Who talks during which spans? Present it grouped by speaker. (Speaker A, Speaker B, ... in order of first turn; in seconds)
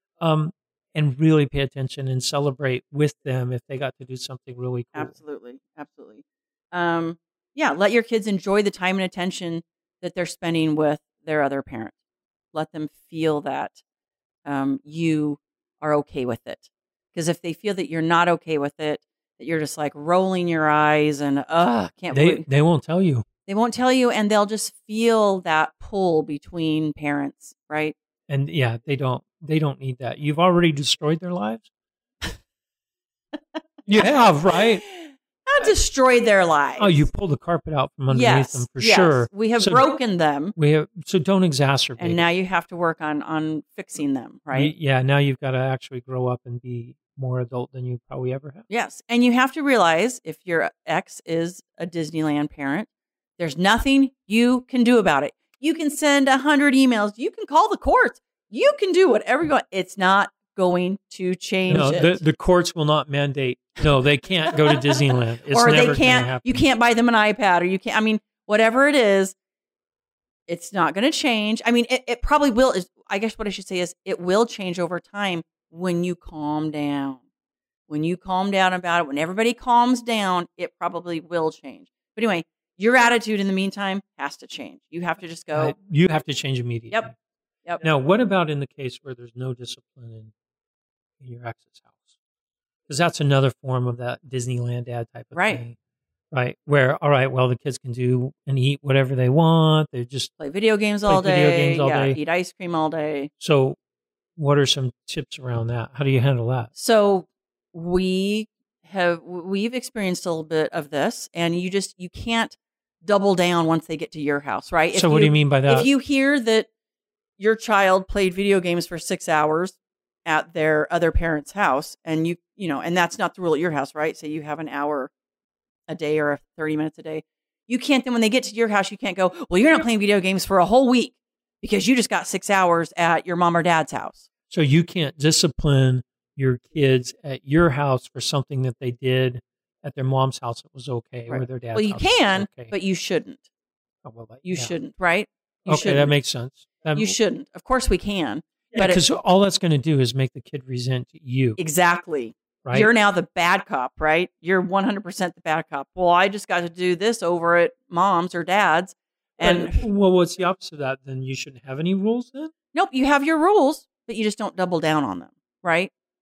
Speaker A: 0.2-5.2, 22.1-23.2, 28.3-31.7, 33.9-34.8, 36.8-39.9, 40.5-42.2, 44.5-48.7, 61.7-66.6, 85.5-87.1, 87.8-90.3, 91.2-92.1, 92.9-95.8, 96.3-100.3, 101.0-102.2, 103.4-103.8, 104.4-106.7, 114.9-115.9, 134.5-142.7, 144.0-144.7, 145.7-147.2, 148.7-151.6, 152.6-152.9, 159.4-162.5
Speaker B: 4.9-11.9, 12.5-13.8, 14.4-22.4, 23.5-27.9, 33.9-37.0, 38.1-40.5, 42.0-44.7, 48.7-62.2, 64.5-69.3, 70.5-77.2, 77.9-85.7, 95.3-95.6, 100.4-103.3, 106.8-116.7, 117.4-125.1, 125.9-134.3, 141.3-143.4, 144.4-146.1, 146.9-149.0, 151.6-159.8, 162.7-165.9